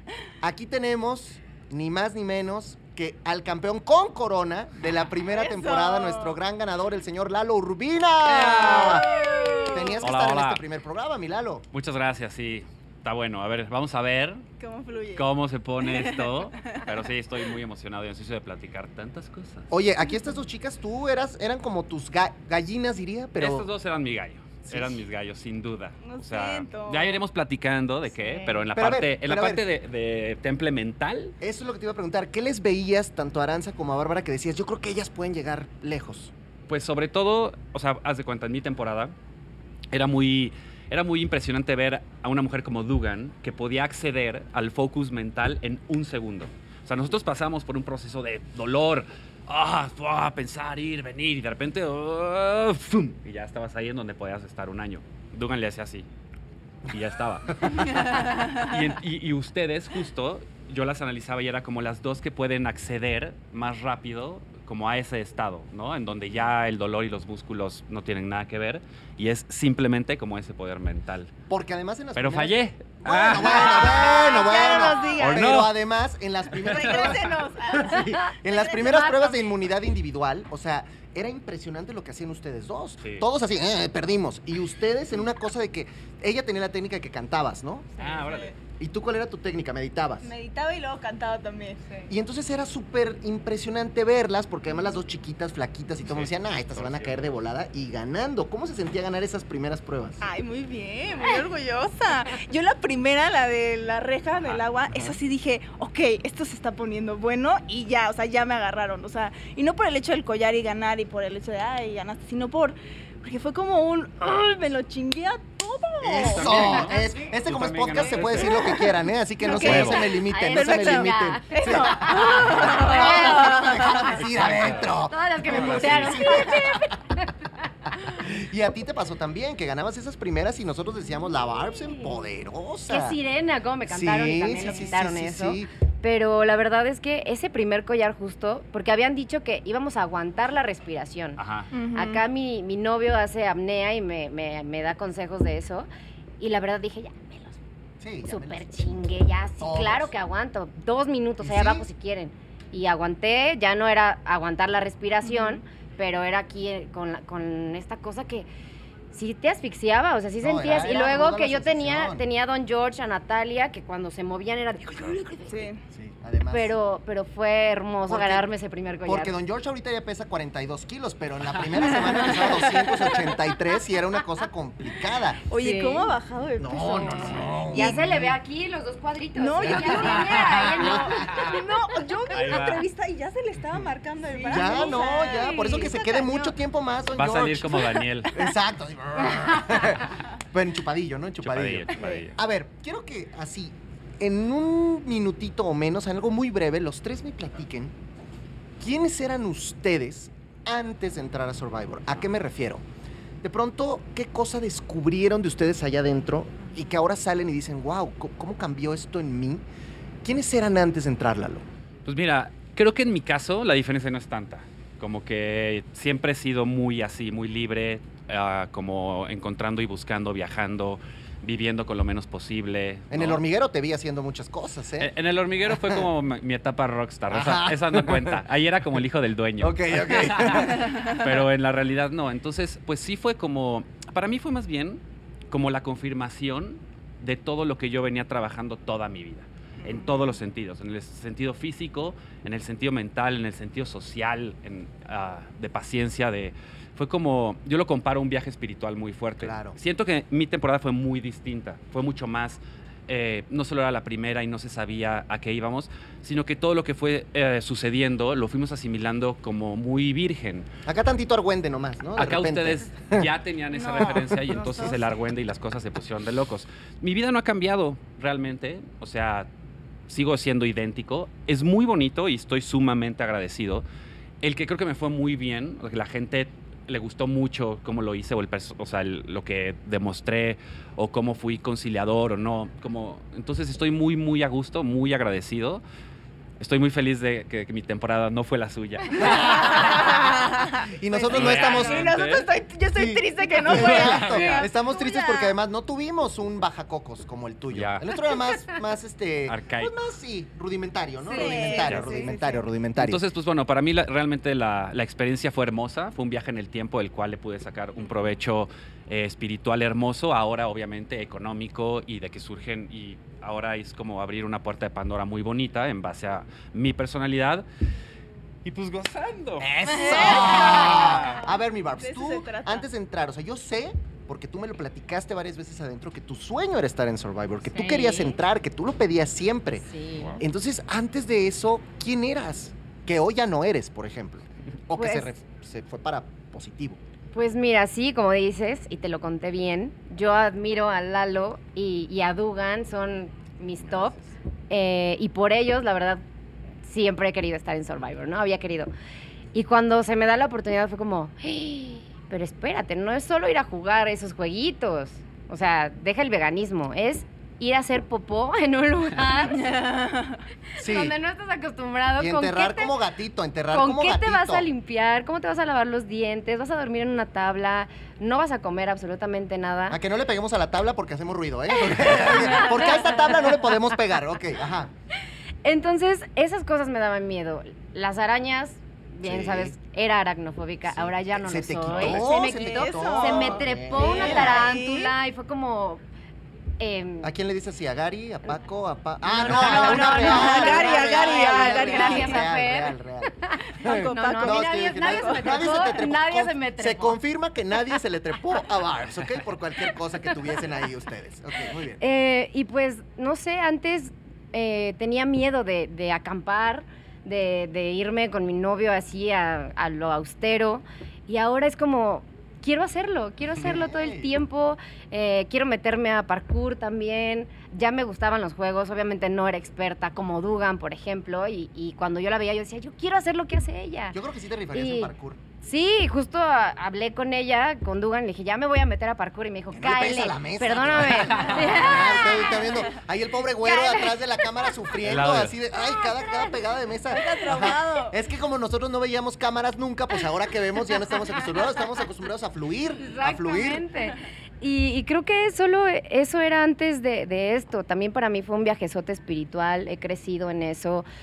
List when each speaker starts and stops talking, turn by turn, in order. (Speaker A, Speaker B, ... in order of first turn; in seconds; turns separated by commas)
Speaker A: 0.4-9.1, Speaker B: 5.3-6.4, Speaker C: 8.2-9.3, Speaker B: 8.4-10.1, Speaker A: 9.7-11.6, Speaker C: 10.0-10.6, Speaker C: 11.7-14.4, Speaker B: 14.6-15.3, Speaker C: 15.1-19.7, Speaker B: 15.8-16.8, Speaker A: 19.7-23.7, Speaker C: 23.4-31.3, Speaker A: 24.6-25.0, Speaker B: 26.1-27.2, Speaker A: 28.7-29.6, Speaker A: 31.4-36.3, Speaker C: 36.7-39.1, Speaker C: 39.9-56.1, Speaker C: 56.9-71.3, Speaker A: 71.5-87.9, Speaker C: 72.2-74.4, Speaker B: 73.3-75.5, Speaker C: 75.1-75.7, Speaker C: 76.5-77.0, Speaker B: 76.6-79.4, Speaker C: 88.0-88.5, Speaker B: 88.0-88.5, Speaker A: 88.8-90.3, Speaker B: 90.2-92.1, Speaker A: 92.1-100.2, Speaker C: 96.0-97.2, Speaker B: 100.2-117.0, Speaker A: 116.0-126.8, Speaker C: 116.1-118.9, Speaker B: 118.2-118.8, Speaker B: 119.4-124.2, Speaker D: 119.4-124.1, Speaker C: 119.6-120.0, Speaker C: 124.2-126.3, Speaker D: 125.1-127.3, Speaker B: 125.8-126.7, Speaker A: 128.0-133.2, Speaker D: 132.9-141.4, Speaker A: 133.9-135.7, Speaker C: 141.4-141.7, Speaker B: 141.7-142.2, Speaker D: 141.9-145.9, Speaker D: 146.4-147.6, Speaker A: 148.0-148.8, Speaker D: 148.2-158.5, Speaker A: 149.6-150.1, Speaker A: 151.4-151.8, Speaker B: 155.2-155.6, Speaker D: 159.1-165.7, Speaker A: 160.4-162.2, Speaker B: 165.5-165.8, Speaker A: 165.9-166.8, Speaker D: 166.5-169.3, Speaker A: 168.1-168.4, Speaker A: 169.0-175.4, Speaker B: 172.0-173.3, Speaker B: 175.5-178.0, Speaker D: 175.5-176.1, Speaker A: 176.6-178.3, Speaker D: 177.7-181.6, Speaker B: 179.3-186.5, Speaker A: 179.6-181.3, Speaker C: 181.3-181.6, Speaker C: 182.3-182.8, Speaker D: 184.3-186.2, Speaker A: 184.5-197.9, Speaker C: 187.1-188.4, Speaker C: 191.4-192.3, Speaker A: 198.8-202.8, Speaker A: 203.4-209.6, Speaker A: 210.2-211.6, Speaker C: 212.0-223.4, Speaker A: 223.1-225.1, Speaker C: 225.0-260.7, Speaker A: 225.7-226.0, Speaker A: 227.3-228.4, Speaker A: 229.6-230.9, Speaker B: 239.8-240.1, Speaker A: 249.4-249.8, Speaker A: 260.9-263.3, Speaker C: 262.2-269.5, Speaker B: 263.7-265.0, Speaker C: 270.1-273.8, Speaker C: 274.4-285.8, Speaker C: 286.6-290.2, Speaker A: 289.1-292.1, Speaker B: 289.3-295.5, Speaker C: 291.3-292.5, Speaker A: 292.9-303.2, Speaker C: 293.6-294.7, Speaker C: 297.7-298.1, Speaker C: 299.5-299.9, Speaker D: 301.2-302.6, Speaker B: 301.3-302.4, Speaker C: 301.7-302.3, Speaker C: 302.9-317.6, Speaker C: 318.6-321.4, Speaker A: 319.6-329.9, Speaker B: 320.0-322.9, Speaker D: 327.7-328.4, Speaker D: 329.9-330.4, Speaker A: 330.4-337.0, Speaker D: 334.9-335.3, Speaker D: 337.3-344.1, Speaker D: 344.7-346.2, Speaker D: 346.8-348.9, Speaker D: 349.5-359.9, Speaker B: 359.3-360.4, Speaker D: 360.8-362.9, Speaker A: 360.8-361.1, Speaker A: 362.2-364.7, Speaker D: 363.7-370.0, Speaker A: 369.9-374.9, Speaker D: 372.2-373.3, Speaker D: 375.6-386.0, Speaker A: 379.2-379.8, Speaker A: 380.9-384.7, Speaker C: 381.9-382.2, Speaker B: 382.2-385.1, Speaker D: 386.8-387.3, Speaker A: 387.2-402.0, Speaker D: 389.3-397.2, Speaker B: 389.5-392.4, Speaker B: 393.8-396.0, Speaker D: 402.0-424.2, Speaker A: 413.6-414.3, Speaker A: 424.1-425.4, Speaker D: 424.7-432.8, Speaker A: 429.7-443.9, Speaker C: 431.3-431.6, Speaker D: 433.6-434.7, Speaker C: 435.0-435.5, Speaker B: 437.1-438.1, Speaker D: 443.0-451.0